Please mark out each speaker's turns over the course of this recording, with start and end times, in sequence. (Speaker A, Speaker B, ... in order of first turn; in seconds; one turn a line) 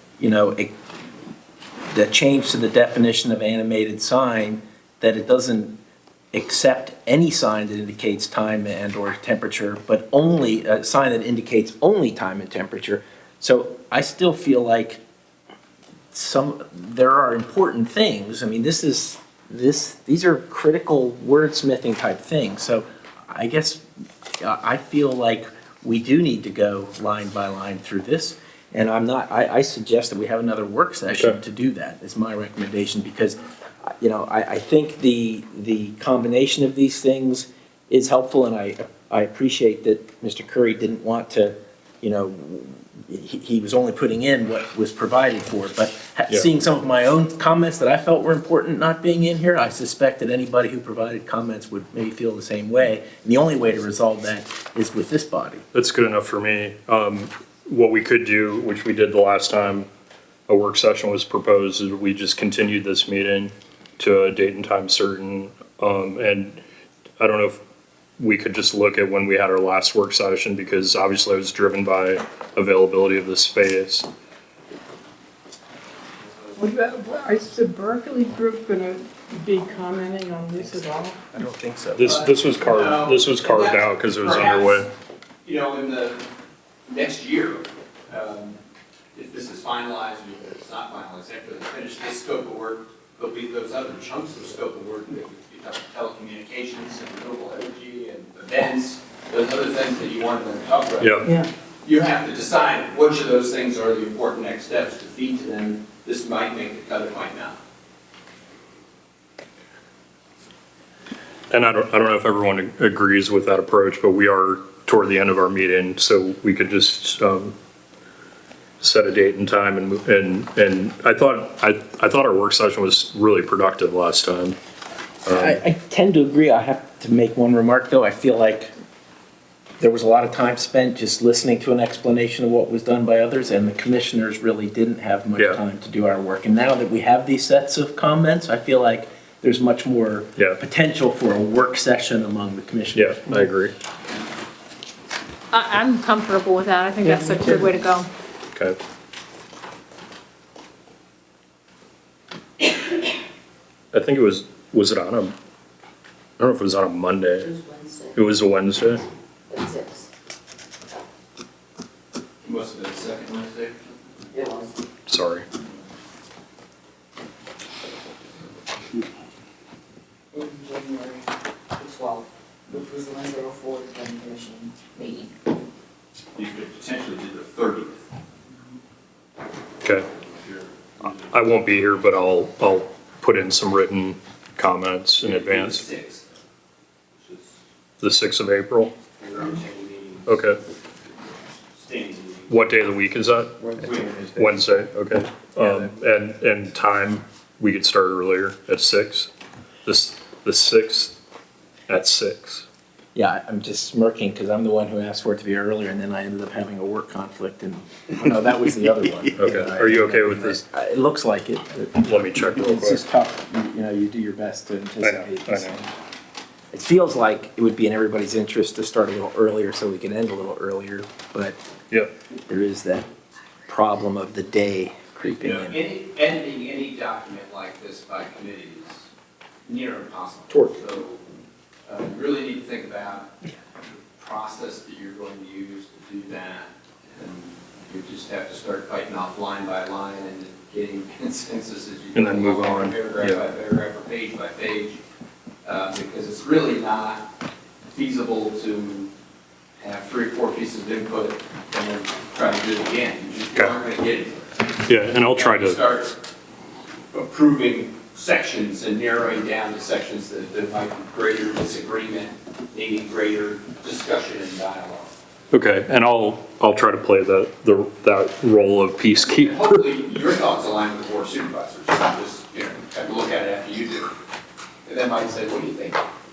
Speaker A: 0.2-0.7
Speaker A: 1.9-5.8
Speaker A: 6.3-15.0
Speaker A: 16.1-23.8
Speaker A: 24.4-55.6
Speaker B: 31.1-31.4
Speaker B: 55.7-59.9
Speaker B: 60.5-66.6
Speaker B: 67.2-67.6
Speaker B: 68.2-74.1
Speaker C: 76.2-76.9
Speaker D: 76.6-81.2
Speaker A: 80.6-82.1
Speaker B: 82.0-84.9
Speaker C: 82.0-84.9
Speaker C: 85.4-86.3
Speaker C: 86.9-88.6
Speaker C: 89.1-101.2
Speaker B: 101.0-101.4
Speaker C: 101.8-107.6
Speaker B: 111.5-117.5
Speaker B: 118.8-124.6
Speaker B: 125.2-125.6
Speaker A: 125.3-128.7
Speaker A: 129.8-143.5
Speaker B: 142.9-143.7
Speaker E: 145.5-148.1
Speaker D: 147.1-147.7
Speaker B: 148.5-148.8
Speaker B: 153.9-155.3
Speaker B: 156.4-157.5
Speaker F: 157.4-158.1
Speaker B: 158.1-159.0
Speaker F: 159.5-160.1
Speaker C: 162.4-164.3
Speaker F: 164.3-164.8
Speaker B: 165.1-165.4
Speaker F: 170.3-175.3
Speaker C: 176.3-178.0
Speaker C: 180.1-181.2
Speaker B: 181.0-185.8
Speaker C: 185.2-186.3
Speaker C: 187.2-187.5
Speaker B: 188.0-188.9
Speaker C: 189.2-190.4
Speaker B: 190.3-190.6
Speaker C: 191.7-192.5
Speaker B: 192.5-193.8
Speaker A: 193.6-194.8
Speaker B: 194.3-199.3
Speaker A: 195.6-195.9
Speaker B: 199.8-201.2
Speaker B: 201.9-202.7
Speaker A: 203.1-215.9
Speaker B: 209.4-210.6
Speaker B: 212.0-213.0
Speaker B: 215.0-215.8
Speaker A: 216.7-221.6
Speaker A: 222.5-223.1
Speaker A: 223.7-225.8
Speaker C: 225.4-229.1
Speaker C: 229.7-231.2
Speaker A: 230.5-230.8
Speaker C: 231.8-233.5
Speaker C: 234.2-245.0
Speaker B: 242.1-243.4
Speaker C: 245.6-247.3
Speaker C: 247.9-249.1
Speaker C: 249.8-254.8
Speaker B: 254.8-255.8
Speaker C: 255.3-256.2
Speaker C: 257.1-265.1
Speaker B: 265.5-269.8
Speaker C: 269.4-274.1
Speaker C: 274.9-276.0